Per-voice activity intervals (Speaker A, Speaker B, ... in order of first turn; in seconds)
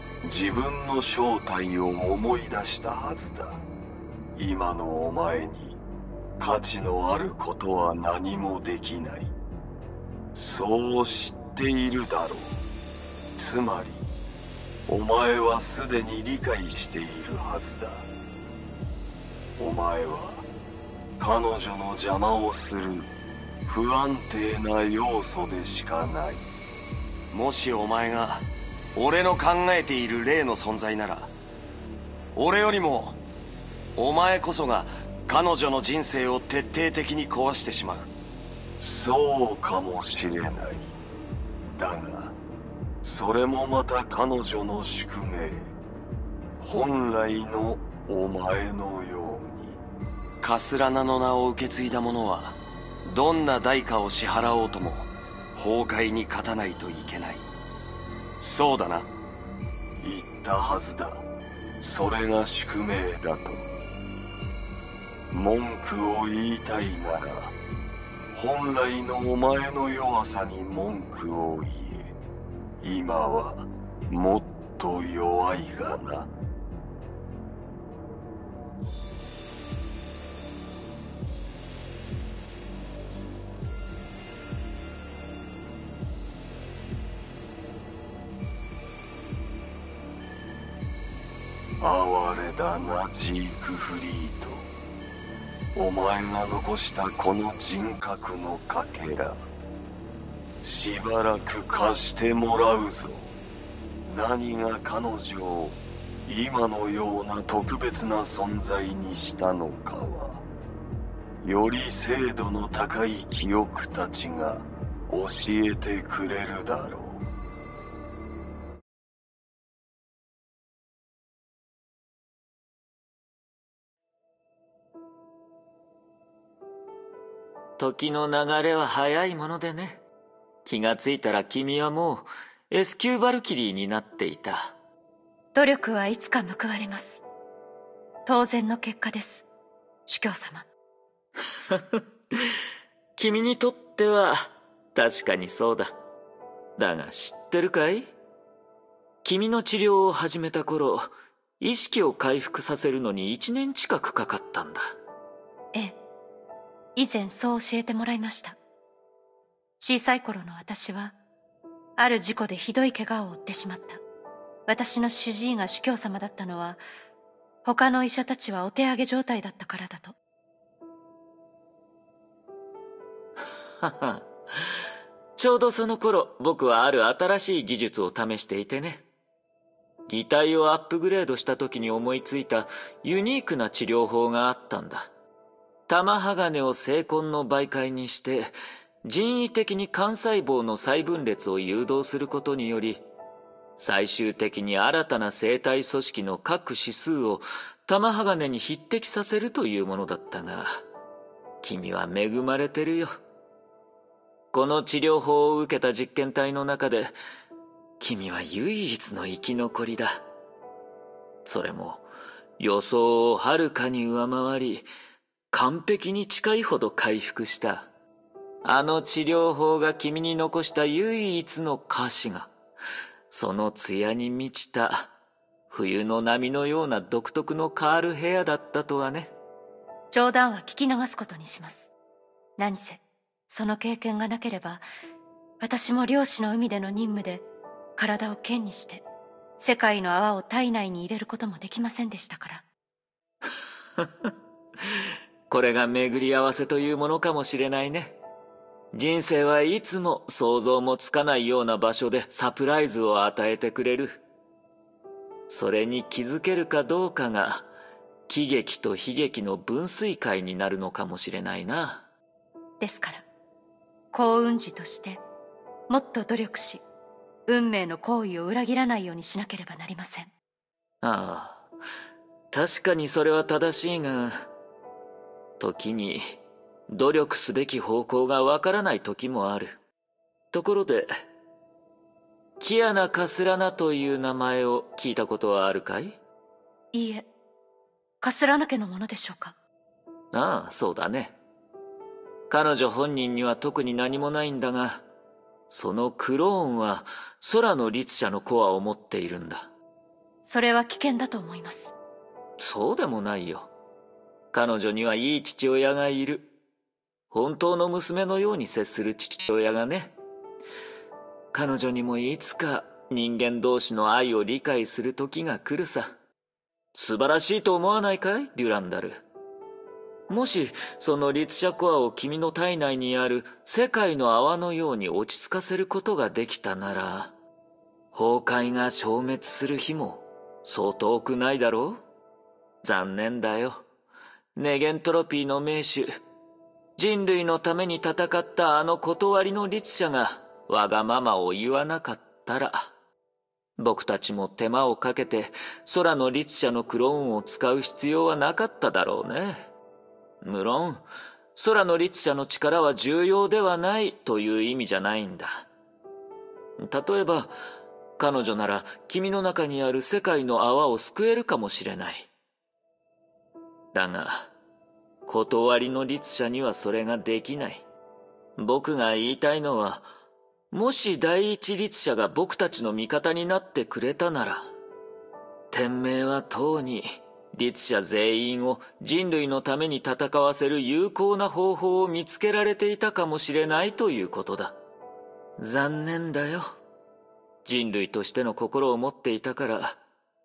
Speaker A: 0.2-3.6, 4.3-5.8, 6.4-9.3, 10.3-12.6, 13.3-14.1, 14.9-18.1, 19.6-20.4, 21.2-23.1, 23.7-26.4, 38.8-40.9, 41.8-42.3, 43.0-45.7, 46.6-49.8, 60.0-61.2, 61.8-63.6, 65.3-67.5, 68.3-72.1, 72.8-76.3, 91.8-94.7, 95.7-99.4, 100.6-103.3, 104.0-110.4, 111.4-117.2
Speaker B: 27.3-28.4, 28.9-31.3, 32.3-33.2, 34.0-38.1, 50.4-57.5, 58.4-59.1
Speaker C: 127.8-130.0, 130.6-134.7, 141.7-142.0, 143.2-145.9, 146.8-148.1, 149.2-154.9, 173.8-174.2, 175.4-179.0, 180.1-185.1, 185.9-188.5, 189.1-193.0, 193.8-200.7, 201.6-203.1, 204.5-207.1, 208.0-210.2, 211.4-212.1, 212.6-214.9, 215.5-217.9, 218.6-222.5, 223.3-225.1, 225.7-229.3, 244.0-244.3, 245.5-248.2, 248.9-254.2, 255.5-257.7, 258.3-262.1, 271.0-271.6, 272.5-274.5, 275.6-276.4, 276.9-279.8, 280.5-281.1, 282.6-286.2, 290.3-291.4, 292.5-295.0, 295.7-299.7, 302.6-303.7, 304.5-306.5, 307.3-310.1, 311.5-316.1, 316.9-319.2, 320.3-327.3, 328.1-332.0, 332.8-333.9, 334.6-336.1, 337.0-342.9, 343.8-349.6, 350.4-355.6, 356.8-357.5, 358.2-362.3, 363.9-364.5, 365.2-367.8, 368.6-370.1, 370.7-374.7, 375.7-384.8, 385.6-386.6, 387.6-390.0
Speaker D: 135.5-137.2, 138.2-139.4, 140.1-140.7, 156.9-158.6, 159.8-161.2, 162.0-164.0, 164.7-166.8, 167.6-170.2, 230.1-231.9, 232.6-234.8, 235.6-237.4, 238.0-239.0, 239.6-242.7, 262.8-263.2, 264.1-265.2, 265.9-266.8, 267.5-270.3, 286.9-287.3, 288.2-289.5, 300.4-301.9